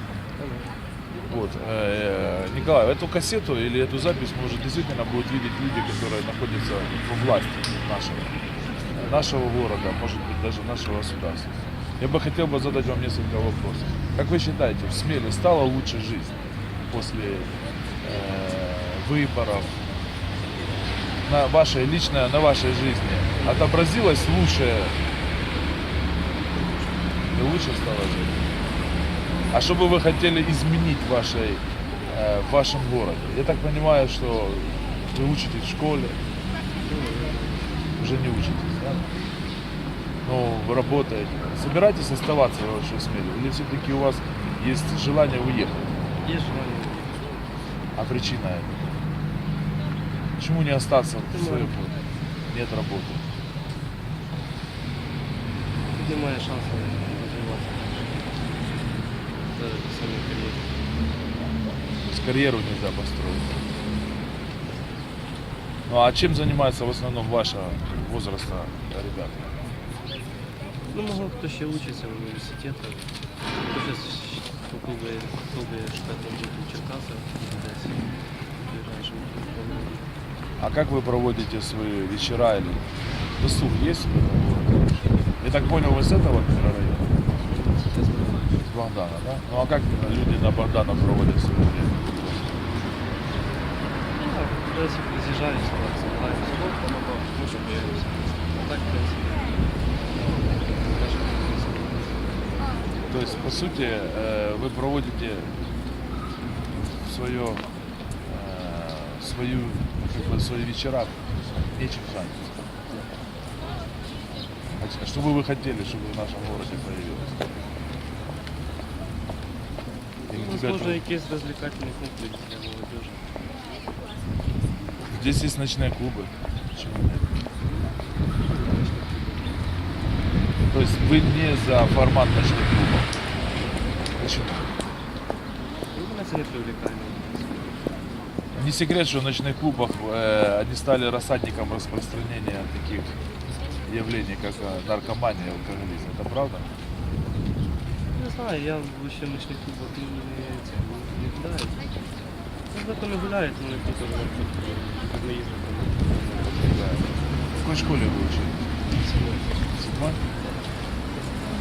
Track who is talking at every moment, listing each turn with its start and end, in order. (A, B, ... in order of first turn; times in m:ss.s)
0:00.4-0:00.7 A
0:01.3-0:08.3 B
0:09.0-0:19.8 B
0:21.2-0:25.0 B
0:23.4-0:23.7 A
0:26.4-0:27.1 A
0:27.3-0:28.4 B
0:29.5-0:36.2 B
0:36.8-0:37.8 A
0:38.0-0:39.1 B
0:40.2-0:45.9 B
0:46.2-0:47.4 A
0:48.0-0:48.9 B
0:50.4-0:52.0 B
0:51.2-0:51.9 A
0:52.5-0:53.2 B
0:55.9-0:58.2 A
0:59.5-1:00.7 A
1:02.1-1:03.5 B
1:05.9-1:09.5 B
1:10.9-1:13.1 A
1:13.7-1:20.1 A
1:20.6-1:27.1 B
1:27.4-1:28.6 A
1:28.7-1:32.6 B
1:34.1-1:39.6 A
1:40.2-1:42.7 A
1:43.1-1:45.6 B
1:46.7-1:47.6 B
1:48.2-1:52.6 B
1:54.8-1:57.5 B
2:00.2-2:03.2 A
2:00.3-2:01.0 B
2:05.1-2:07.3 B
2:08.4-2:09.6 A
2:10.7-2:13.1 B
2:14.2-2:14.7 B
2:15.9-2:17.9 A
2:18.5-2:23.2 B
2:23.8-2:26.7 B
2:28.1-2:31.9 A
2:32.7-2:37.1 A
2:36.6-2:38.7 B
2:38.9-2:39.7 A
2:39.8-2:40.2 B
2:40.4-2:40.6 A